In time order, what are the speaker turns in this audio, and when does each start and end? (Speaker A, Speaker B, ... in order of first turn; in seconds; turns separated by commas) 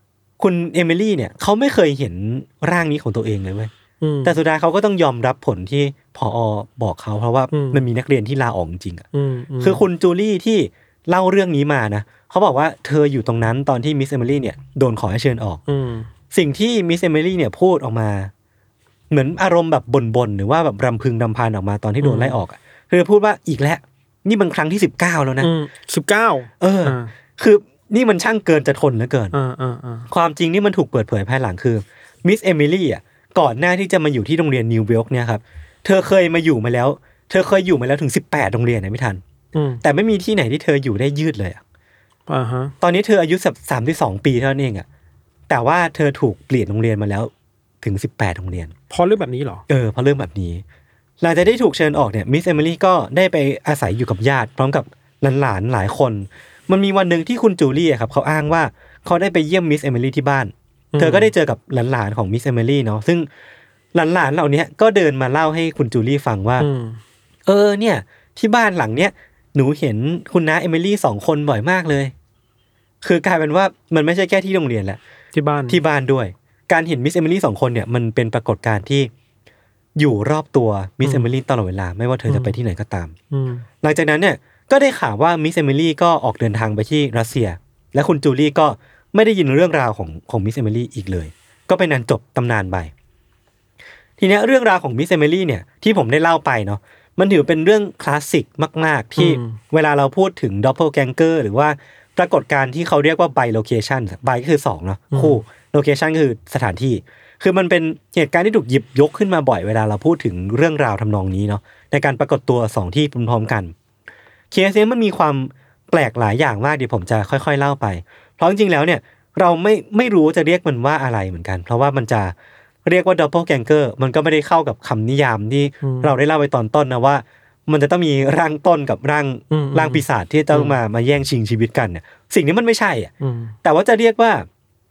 Speaker A: 0.4-3.7, Speaker B: 4.0-4.3, Speaker A: 4.2-9.1, Speaker B: 7.5-7.8, Speaker B: 9.1-9.8, Speaker A: 9.6-15.6, Speaker B: 15.7-16.1, Speaker A: 16.3-18.3, Speaker A: 19.1-25.5, Speaker B: 22.0-22.4, Speaker B: 25.4-27.1, Speaker A: 26.6-29.3, Speaker B: 29.3-30.1, Speaker A: 30.1-39.2, Speaker B: 39.5-39.8, Speaker A: 39.8-41.6, Speaker B: 42.3-42.7, Speaker A: 42.8-44.9, Speaker A: 45.5-47.3, Speaker A: 47.8-48.7, Speaker B: 48.9-49.6, Speaker A: 49.7-50.6, Speaker A: 51.2-63.3, Speaker B: 60.9-61.3, Speaker A: 63.9-66.7, Speaker B: 66.6-67.0, Speaker A: 67.5-72.1, Speaker A: 73.0-75.0, Speaker B: 75.3-75.8, Speaker A: 75.7-79.1, Speaker A: 80.0-83.1, Speaker B: 81.0-81.3, Speaker B: 82.3-82.6, Speaker B: 83.3-83.6, Speaker A: 83.8-92.9, Speaker A: 94.2-113.7, Speaker B: 99.2-99.6, Speaker B: 105.1-105.4, Speaker A: 114.5-122.3, Speaker A: 122.8-133.1, Speaker B: 125.8-126.1, Speaker B: 129.5-130.8, Speaker B: 133.2-133.5, Speaker A: 133.6-134.5